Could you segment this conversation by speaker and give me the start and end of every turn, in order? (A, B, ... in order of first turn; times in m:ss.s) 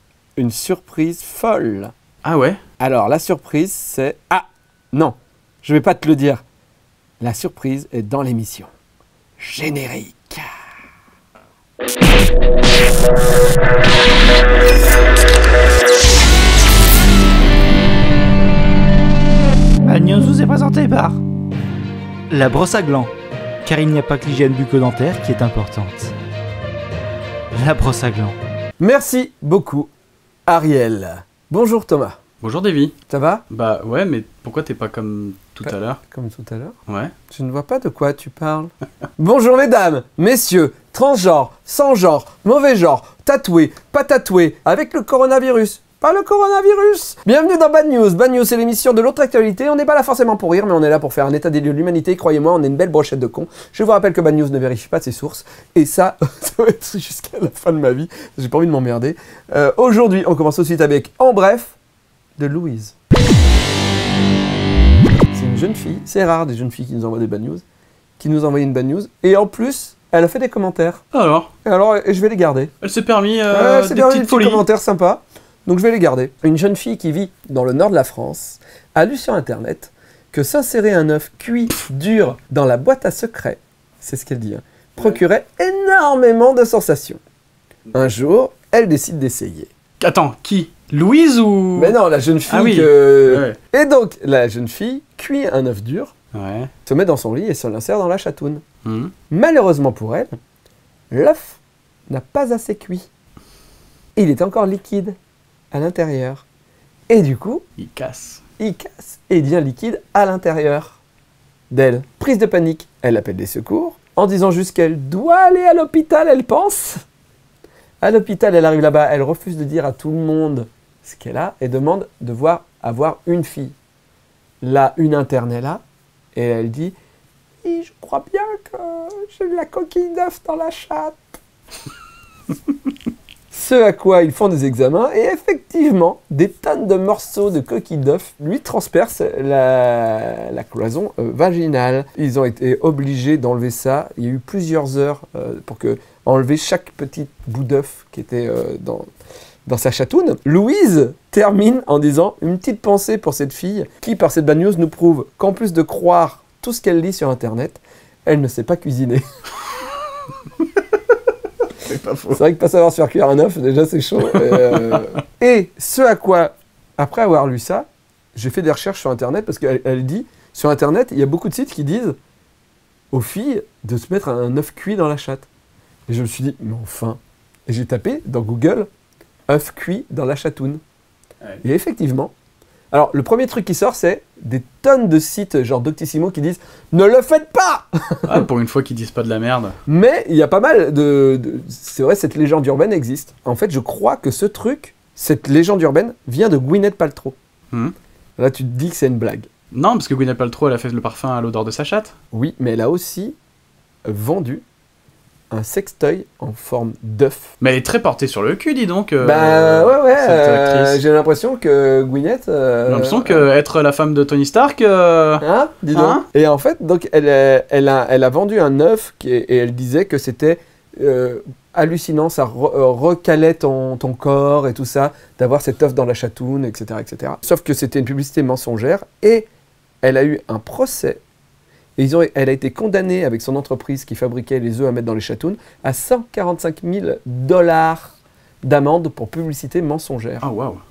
0:00.4-0:01.9 A
0:02.2-0:02.6 B
0:02.8-0:06.4 A
0:07.2-0:08.7 A
0:09.4-0:10.5 A
0:19.8-0:21.2 C
0:22.3-0:23.1 C
0:23.6-0:26.1 C
0:27.5-0:28.3 C
0:28.8-0:29.9 A
0:30.5-0:32.2 A
0:32.4-0:32.9 B
0:33.1-0:33.4 A
0:33.5-0:36.0 B
0:35.6-0:36.7 A
0:36.9-0:37.1 B
0:37.3-1:01.7 A
1:02.4-1:02.9 A
1:05.3-1:07.6 A
1:08.2-1:11.0 A
1:11.1-1:11.5 B
1:11.6-1:12.7 A
1:12.8-1:14.6 B
1:13.5-1:27.2 A
1:27.9-1:29.7 A
1:30.0-1:32.0 B
1:31.8-1:36.1 A
1:32.5-1:33.6 B
1:36.3-1:36.7 B
1:36.8-1:38.6 A
1:38.8-1:39.1 B
1:39.3-1:40.4 A
1:41.1-1:43.1 A
1:44.2-1:45.2 A
1:45.7-1:46.4 A
1:47.1-1:47.6 A
1:47.8-1:48.4 B
1:48.6-1:51.0 A
1:51.7-1:57.0 A
1:58.0-2:03.8 A
2:04.6-2:05.8 A
2:06.3-2:06.9 A
2:07.6-2:11.2 A
2:13.5-2:29.1 A
2:29.6-2:39.2 A
2:41.8-2:42.4 B
2:42.3-2:52.2 A
2:53.1-2:55.5 A
2:56.1-2:58.9 A
2:59.5-3:00.8 A
3:01.6-3:02.3 A
3:02.9-3:08.4 A
3:08.2-3:09.8 B
3:09.8-3:17.4 A
3:18.4-3:19.5 A
3:19.7-3:22.1 B
3:22.3-3:23.4 A
3:24.0-3:24.6 A
3:25.5-3:27.5 A
3:27.6-3:31.0 B
3:29.2-3:33.4 A
3:32.9-3:36.2 B
3:35.4-3:49.5 A
3:50.0-3:51.2 A
3:52.0-4:00.4 A
4:00.4-4:00.8 B